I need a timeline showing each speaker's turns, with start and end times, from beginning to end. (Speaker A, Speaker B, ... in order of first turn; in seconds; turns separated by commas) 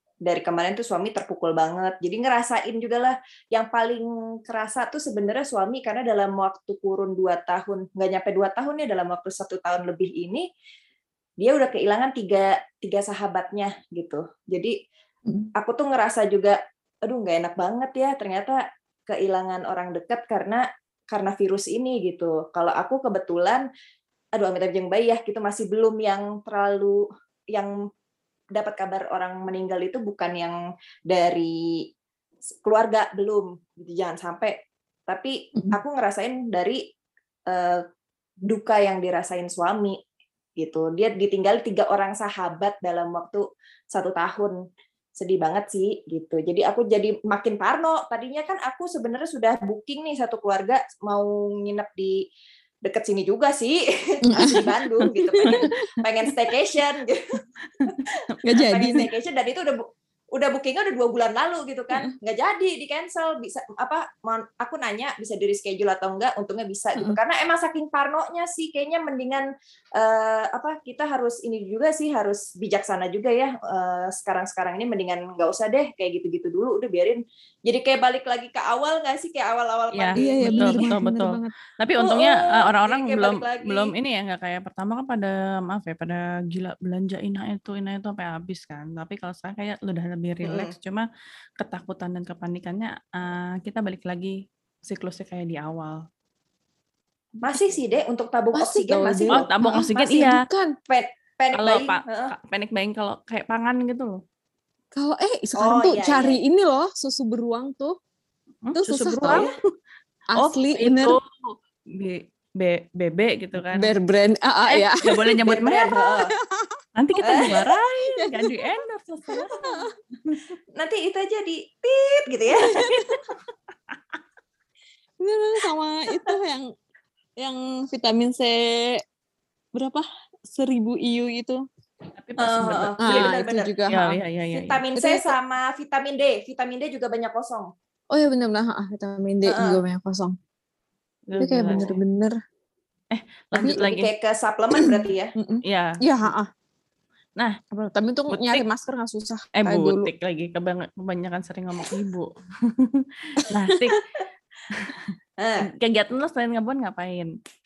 Speaker A: 0.2-10.4, Speaker A: 11.4-14.7, Speaker A: 15.6-23.6, Speaker A: 24.4-27.0, Speaker A: 28.5-30.6, Speaker A: 31.1-31.5, Speaker A: 32.6-34.5, Speaker A: 35.1-36.8, Speaker A: 37.5-37.8, Speaker A: 38.5-40.0, Speaker A: 40.6-44.5, Speaker A: 45.2-52.1, Speaker A: 52.8-57.2, Speaker B: 54.2-55.8, Speaker C: 55.4-55.8, Speaker C: 57.6-58.0, Speaker B: 58.4-59.1, Speaker A: 58.6-59.8, Speaker A: 60.3-69.4, Speaker A: 70.0-81.0, Speaker C: 79.9-91.1, Speaker B: 80.2-81.5, Speaker A: 82.0-83.9, Speaker A: 90.4-90.7, Speaker C: 91.6-96.0, Speaker A: 97.4-100.3, Speaker B: 98.5-100.7, Speaker C: 99.3-100.4, Speaker A: 100.9-102.3, Speaker C: 101.5-104.2, Speaker B: 104.9-107.9, Speaker A: 105.5-106.4, Speaker C: 108.6-109.6, Speaker B: 108.7-109.4, Speaker A: 109.2-109.5, Speaker B: 110.3-111.2, Speaker C: 110.3-111.2, Speaker C: 111.9-113.9, Speaker B: 113.6-115.3, Speaker C: 114.7-115.9, Speaker A: 115.5-116.3, Speaker B: 116.1-116.7, Speaker C: 117.0-120.4, Speaker A: 117.2-117.5, Speaker B: 117.4-118.5, Speaker B: 119.3-119.9, Speaker A: 120.8-122.7, Speaker C: 122.7-123.2, Speaker C: 123.9-124.2, Speaker B: 125.2-126.7, Speaker B: 127.4-129.0, Speaker B: 129.7-131.6, Speaker C: 132.2-133.3, Speaker A: 132.4-133.8, Speaker B: 133.0-134.2, Speaker C: 133.9-134.8, Speaker A: 134.5-137.7, Speaker B: 134.9-135.3, Speaker B: 138.1-140.3, Speaker A: 139.4-139.8, Speaker C: 141.3-142.0, Speaker B: 141.4-142.3, Speaker C: 143.1-144.1, Speaker B: 143.5-143.8, Speaker A: 143.8-145.3, Speaker B: 144.7-146.5, Speaker C: 145.6-146.0, Speaker B: 147.7-150.1, Speaker C: 148.3-148.6, Speaker C: 149.6-154.0, Speaker B: 153.5-153.9, Speaker C: 154.7-155.1, Speaker A: 155.4-155.7, Speaker C: 155.6-157.3